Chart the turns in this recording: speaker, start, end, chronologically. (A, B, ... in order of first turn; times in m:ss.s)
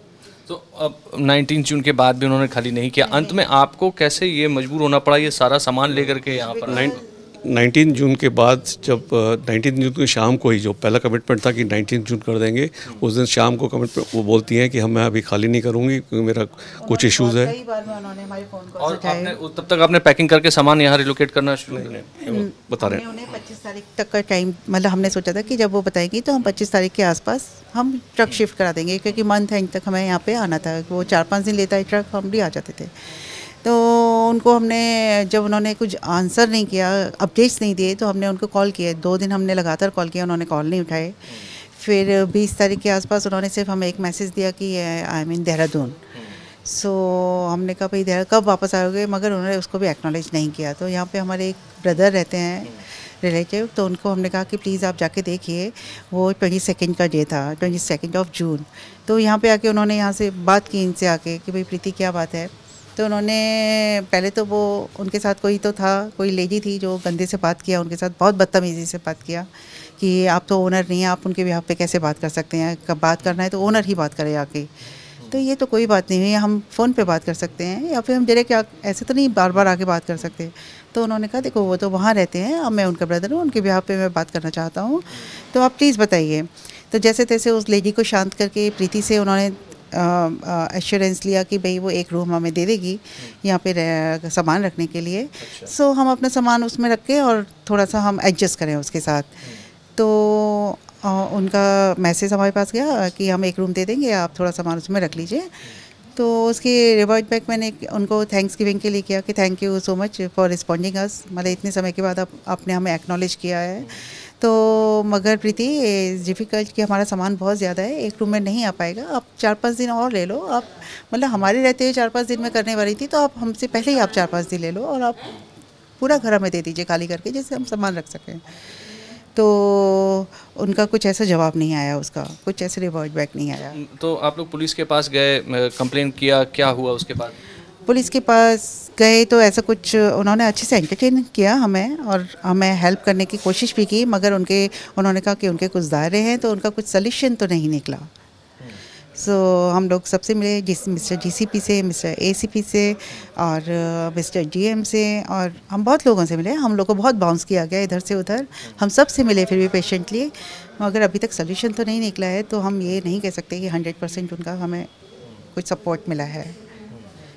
0:00.5-0:07.0 A
0:06.7-0:17.5 B
0:16.8-0:19.4 C
0:18.8-0:21.9 A
0:21.7-0:23.1 B
0:22.3-0:46.0 C
0:46.7-1:09.5 C
1:10.0-1:14.7 C
1:15.2-1:39.4 C
1:35.4-1:35.7 A
1:40.0-1:45.6 C
1:46.2-2:05.4 C
2:06.0-2:08.4 C
2:09.4-2:13.8 C
2:13.7-2:17.4 A
2:17.9-2:28.1 C
2:29.2-2:44.9 C
2:45.6-2:46.6 C